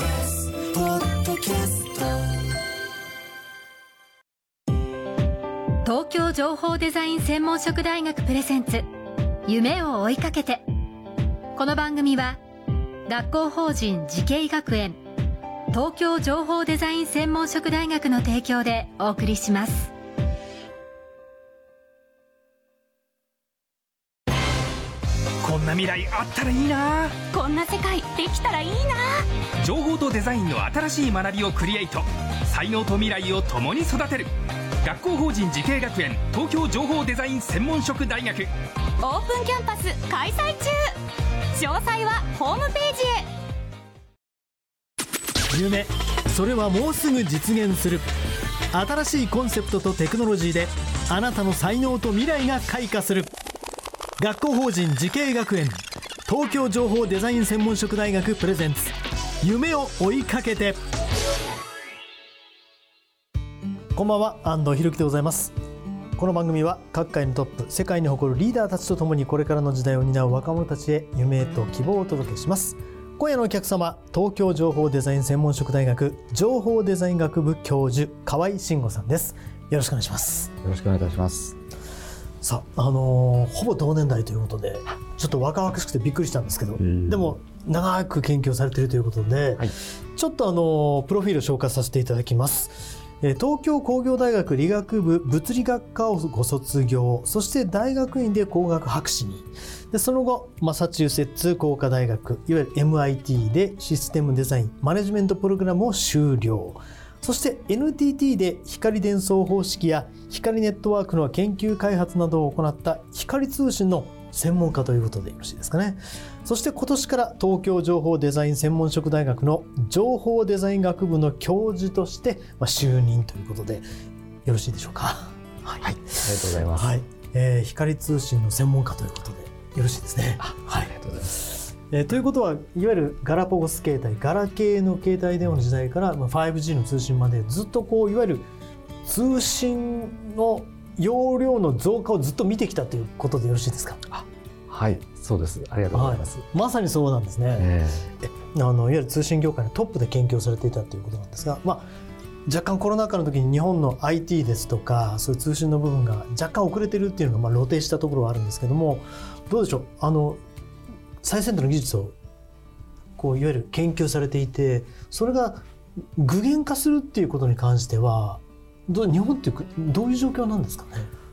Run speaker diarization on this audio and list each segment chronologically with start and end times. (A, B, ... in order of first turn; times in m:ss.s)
0:00.9-0:02.0 A
0:05.8-0:08.9 A
0:09.4-0:10.6 A
0:11.6-0:12.4 A
0:13.1-0:15.0 A
0:15.7-0:19.9 A
0:25.4-0:27.2 B
0:27.2-0:29.2 C
0:29.6-0:34.3 B
0:34.8-0:38.5 B
0:39.0-0:40.8 C
0:41.5-0:43.2 C
0:45.5-0:48.0 D
0:48.7-0:53.3 D
0:54.2-1:00.8 D
1:03.9-1:05.5 D
1:06.2-1:20.5 D
1:20.6-1:21.6 E
1:22.4-2:03.8 D
1:26.8-1:27.4 E
2:04.4-2:10.9 D
2:05.8-2:06.9 E
2:10.4-2:11.4 E
2:11.9-2:18.5 D
2:19.0-2:24.0 D
2:24.1-2:26.3 E
2:25.9-2:27.7 D
2:27.6-2:28.1 E
2:28.2-2:31.9 D
2:32.4-2:40.4 D
2:41.2-2:42.1 D
2:43.2-2:45.6 D
2:46.2-2:51.1 D